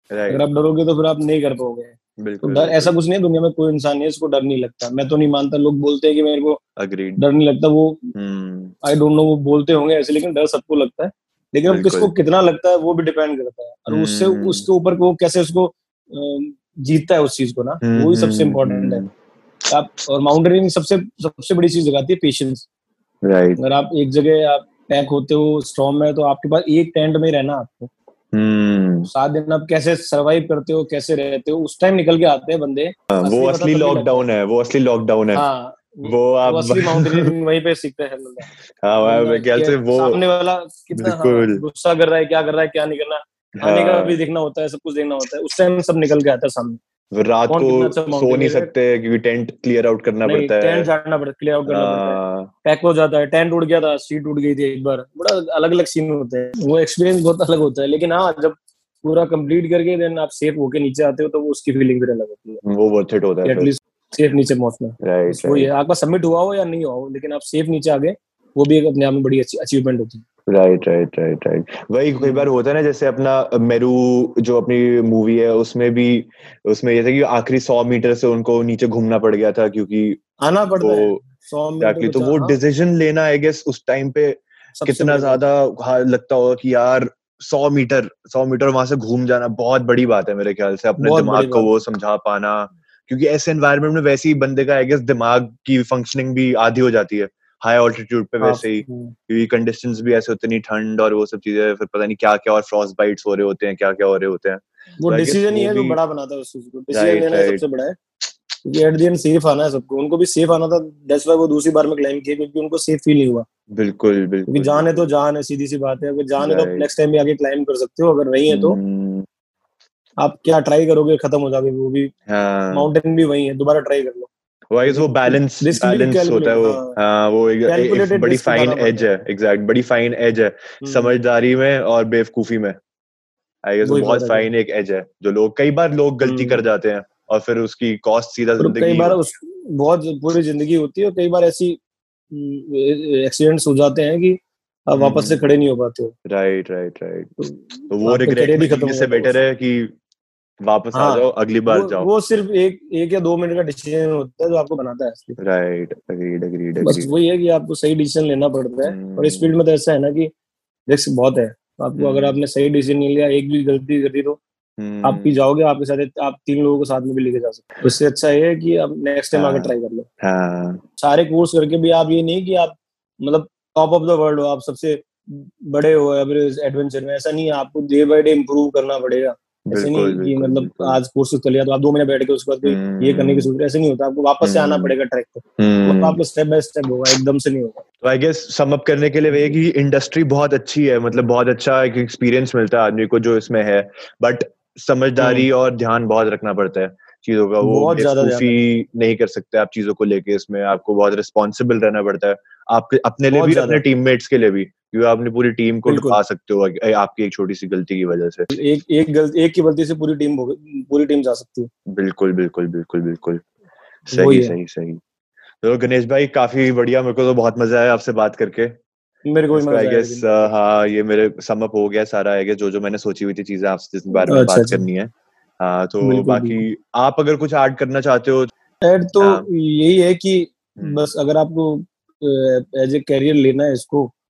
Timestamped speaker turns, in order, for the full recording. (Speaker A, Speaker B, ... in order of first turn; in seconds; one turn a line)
Speaker A: 0.1-0.4
Speaker B: 0.3-6.6
Speaker A: 2.2-3.0
Speaker A: 6.8-7.2
Speaker B: 7.2-8.1
Speaker A: 8.1-8.7
Speaker B: 8.8-19.0
Speaker A: 11.7-12.1
Speaker A: 13.9-14.7
Speaker A: 17.8-19.1
Speaker B: 19.7-22.6
Speaker A: 23.2-23.6
Speaker B: 23.6-27.9
Speaker A: 28.3-29.1
Speaker B: 29.1-34.3
Speaker A: 33.1-35.4
Speaker B: 35.3-38.5
Speaker A: 36.0-37.3
Speaker A: 38.8-40.2
Speaker B: 39.0-46.8
Speaker A: 40.9-41.6
Speaker A: 43.6-44.2
Speaker A: 47.1-50.9
Speaker B: 47.5-48.7
Speaker B: 50.2-62.6
Speaker A: 51.6-52.5
Speaker A: 62.6-63.7
Speaker B: 63.4-70.2
Speaker A: 65.0-65.7
Speaker A: 70.5-80.2
Speaker B: 72.2-72.5
Speaker B: 80.4-82.5
Speaker A: 80.8-81.2
Speaker A: 81.8-106.0
Speaker B: 84.8-85.4
Speaker B: 91.0-91.7
Speaker B: 98.4-99.1
Speaker B: 105.0-108.0
Speaker A: 106.9-107.6
Speaker B: 108.6-113.5
Speaker A: 113.7-115.1
Speaker B: 114.5-118.8
Speaker A: 116.4-116.9
Speaker A: 118.5-119.2
Speaker B: 120.2-122.1
Speaker A: 122.3-122.9
Speaker B: 122.7-124.3
Speaker A: 124.7-132.8
Speaker B: 124.9-127.0
Speaker B: 127.7-129.1
Speaker B: 130.8-131.2
Speaker A: 133.6-139.2
Speaker B: 133.8-134.5
Speaker B: 136.2-136.6
Speaker B: 138.6-141.8
Speaker B: 142.3-146.1
Speaker A: 144.9-145.4
Speaker A: 146.2-149.9
Speaker B: 147.4-149.3
Speaker A: 150.6-152.1
Speaker B: 150.9-155.4
Speaker A: 155.4-157.1
Speaker B: 156.8-160.3
Speaker A: 158.8-159.6
Speaker B: 160.9-164.4
Speaker A: 161.9-162.4
Speaker A: 164.8-165.4
Speaker B: 165.0-170.1
Speaker A: 169.3-170.8
Speaker B: 171.0-187.8
Speaker A: 179.7-181.0
Speaker A: 182.6-183.5
Speaker A: 184.4-184.9
Speaker A: 185.6-186.2
Speaker A: 188.0-208.5
Speaker B: 195.2-195.5
Speaker B: 197.6-198.6
Speaker B: 203.3-203.8
Speaker B: 205.9-206.2
Speaker B: 208.5-211.7
Speaker A: 211.9-213.4
Speaker A: 214.1-215.0
Speaker B: 214.1-214.5
Speaker A: 215.6-218.7
Speaker B: 219.3-220.3
Speaker A: 219.5-228.5
Speaker B: 224.3-224.8
Speaker B: 226.0-226.6
Speaker B: 228.8-234.1
Speaker A: 229.2-229.5
Speaker A: 230.8-231.1